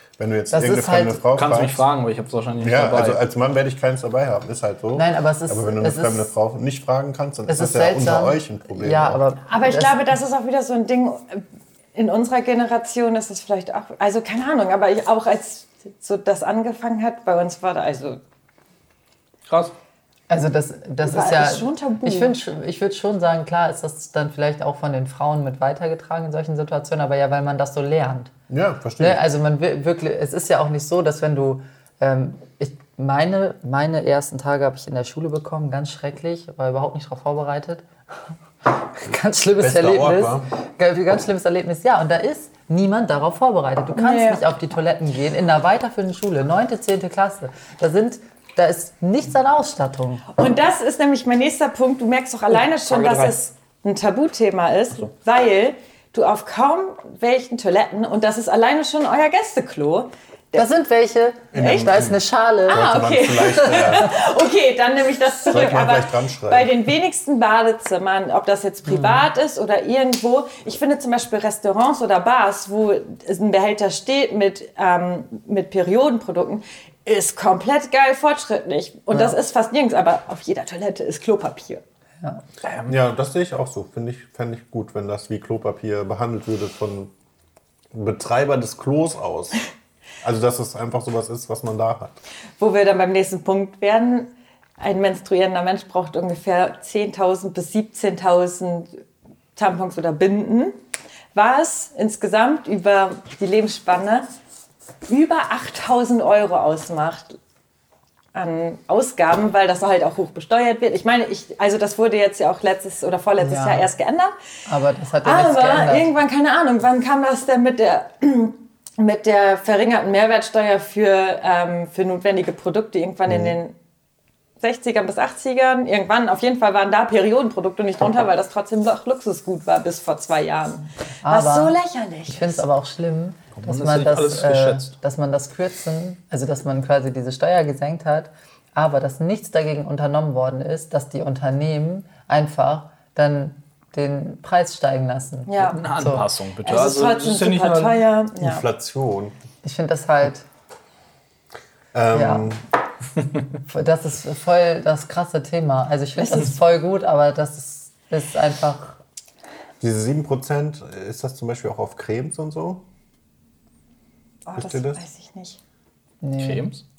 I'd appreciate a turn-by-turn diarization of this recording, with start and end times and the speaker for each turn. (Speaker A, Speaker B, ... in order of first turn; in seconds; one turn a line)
Speaker A: 0.2-1.8
Speaker B: 0.5-1.2
Speaker C: 1.3-3.2
Speaker A: 2.6-9.2
Speaker B: 4.9-6.3
Speaker B: 7.5-10.1
Speaker D: 9.5-11.4
Speaker D: 11.9-18.2
Speaker C: 19.5-19.7
Speaker B: 20.3-28.3
Speaker D: 21.0-22.4
Speaker A: 28.5-29.2
Speaker B: 29.0-37.8
Speaker B: 38.6-50.2
Speaker A: 39.6-40.5
Speaker D: 44.0-44.4
Speaker D: 50.3-60.6
Speaker C: 52.6-53.3
Speaker B: 60.5-62.9
Speaker A: 61.5-64.2
Speaker D: 61.5-61.9
Speaker D: 62.7-81.8
Speaker A: 65.5-66.8
Speaker B: 68.9-69.3
Speaker C: 82.6-82.9
Speaker A: 82.8-87.1
Speaker A: 87.9-89.6
Speaker A: 90.2-92.2
Speaker D: 92.6-99.0
Speaker D: 99.5-100.8
Speaker D: 101.3-104.3
Speaker D: 105.1-107.4
Speaker D: 108.3-114.3
Speaker B: 113.4-113.9
Speaker B: 114.7-116.1
Speaker D: 115.2-123.7
Speaker A: 123.3-123.6
Speaker D: 124.6-132.6
Speaker B: 131.2-131.7
Speaker B: 132.3-146.3
Speaker C: 133.6-134.9
Speaker D: 145.5-145.8
Speaker C: 145.7-148.0
Speaker D: 146.6-148.6
Speaker A: 148.4-149.3
Speaker B: 149.6-150.4
Speaker A: 151.9-152.6
Speaker B: 152.1-152.5
Speaker B: 153.7-159.0
Speaker D: 156.2-156.5
Speaker A: 159.8-162.8
Speaker D: 164.4-165.6
Speaker A: 164.6-165.0
Speaker B: 166.2-166.7
Speaker C: 166.4-166.8